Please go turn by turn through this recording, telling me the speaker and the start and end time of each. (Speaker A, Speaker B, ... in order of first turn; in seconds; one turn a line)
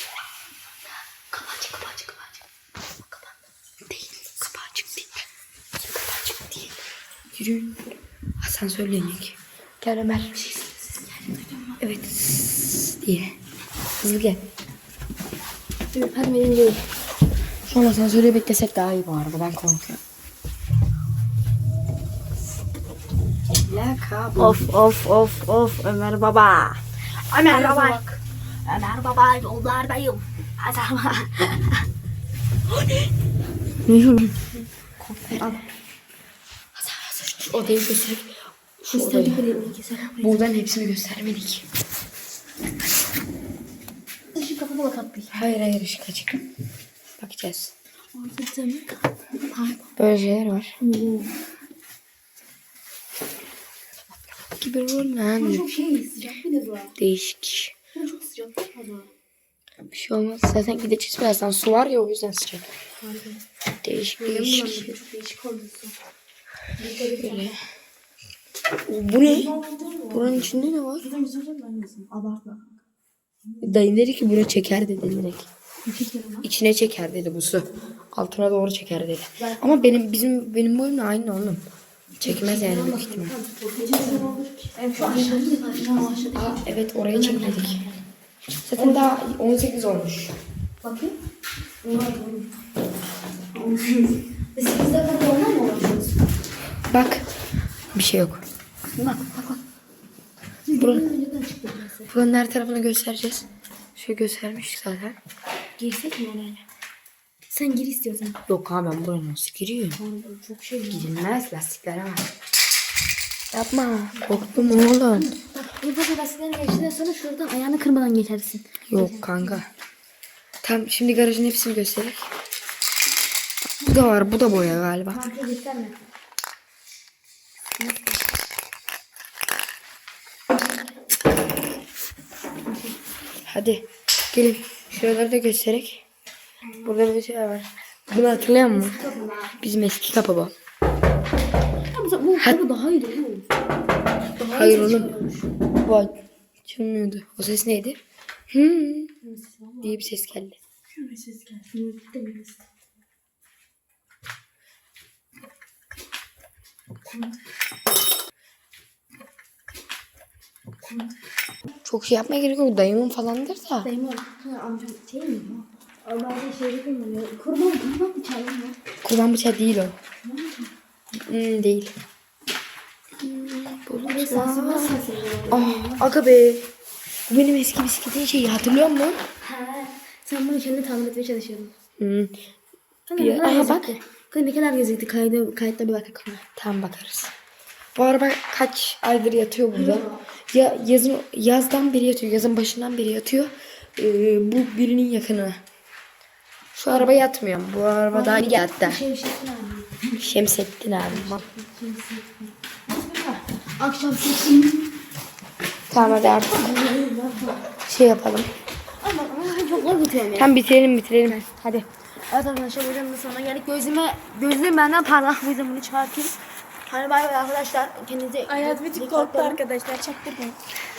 Speaker A: 1.3-2.2
Speaker B: 3.9-5.2
Speaker B: 5.8-6.8
Speaker B: 7.3-10.4
Speaker A: 10.5-11.8
Speaker B: 11.8-13.3
Speaker B: 14.0-14.4
Speaker A: 15.9-16.9
Speaker B: 17.7-20.0
Speaker B: 23.6-24.6
Speaker A: 24.4-31.9
Speaker A: 33.9-34.5
Speaker A: 35.0-35.6
Speaker B: 36.8-39.5
Speaker A: 38.9-40.5
Speaker B: 40.1-41.7
Speaker A: 44.3-45.4
Speaker B: 45.3-46.5
Speaker B: 47.2-47.7
Speaker A: 48.1-48.9
Speaker A: 49.5-49.8
Speaker B: 50.0-50.8
Speaker A: 50.8-51.3
Speaker B: 54.6-56.1
Speaker A: 55.4-57.0
Speaker B: 57.0-57.7
Speaker A: 57.9-59.1
Speaker B: 59.9-62.7
Speaker A: 63.0-63.4
Speaker B: 63.8-65.0
Speaker A: 64.2-65.9
Speaker A: 66.8-67.6
Speaker B: 67.2-67.6
Speaker B: 68.9-69.5
Speaker A: 69.2-72.8
Speaker B: 70.1-71.1
Speaker B: 73.6-75.5
Speaker A: 75.8-76.5
Speaker B: 76.4-81.6
Speaker A: 79.4-80.0
Speaker B: 82.2-87.8
Speaker A: 82.2-88.0
Speaker B: 88.7-90.4
Speaker A: 88.8-89.1
Speaker A: 90.8-91.2
Speaker A: 91.8-92.5
Speaker A: 93.5-96.2
Speaker B: 96.9-97.3
Speaker B: 97.9-98.4
Speaker A: 99.0-99.6
Speaker A: 100.7-102.1
Speaker B: 100.8-101.1
Speaker B: 102.1-105.2
Speaker A: 105.8-106.6
Speaker A: 107.5-108.4
Speaker B: 108.5-110.0
Speaker A: 110.0-111.1
Speaker B: 110.9-112.3
Speaker B: 113.5-115.3
Speaker A: 114.2-119.6
Speaker B: 118.9-119.7
Speaker B: 120.6-122.3
Speaker B: 123.8-125.3
Speaker A: 125.1-126.0
Speaker A: 127.8-128.2
Speaker A: 132.7-132.9
Speaker B: 133.5-136.1
Speaker A: 136.7-136.9
Speaker B: 136.8-139.0
Speaker A: 138.2-139.6
Speaker B: 139.6-140.5
Speaker A: 141.9-143.5
Speaker A: 144.4-145.5
Speaker B: 144.5-145.1
Speaker B: 145.8-148.0
Speaker B: 148.5-149.1
Speaker A: 149.2-150.0
Speaker B: 149.8-150.6
Speaker A: 150.9-152.6
Speaker A: 157.0-157.4
Speaker A: 160.8-161.1
Speaker B: 161.8-163.9
Speaker A: 163.8-168.8
Speaker B: 169.0-170.0
Speaker A: 170.2-170.7
Speaker B: 171.1-171.9
Speaker B: 173.2-176.7
Speaker A: 174.1-176.1
Speaker B: 177.3-179.2
Speaker A: 179.4-181.7
Speaker B: 182.0-182.4
Speaker A: 183.1-186.4
Speaker B: 183.2-184.0
Speaker B: 186.6-187.3
Speaker B: 187.9-195.6
Speaker A: 189.7-190.2
Speaker B: 196.8-199.0
Speaker A: 198.1-200.1
Speaker B: 200.1-201.4
Speaker A: 201.1-204.9
Speaker B: 205.9-206.6
Speaker A: 205.9-207.7
Speaker B: 207.8-208.5
Speaker A: 209.0-210.5
Speaker B: 210.3-211.4
Speaker A: 211.3-219.6
Speaker C: 218.5-220.6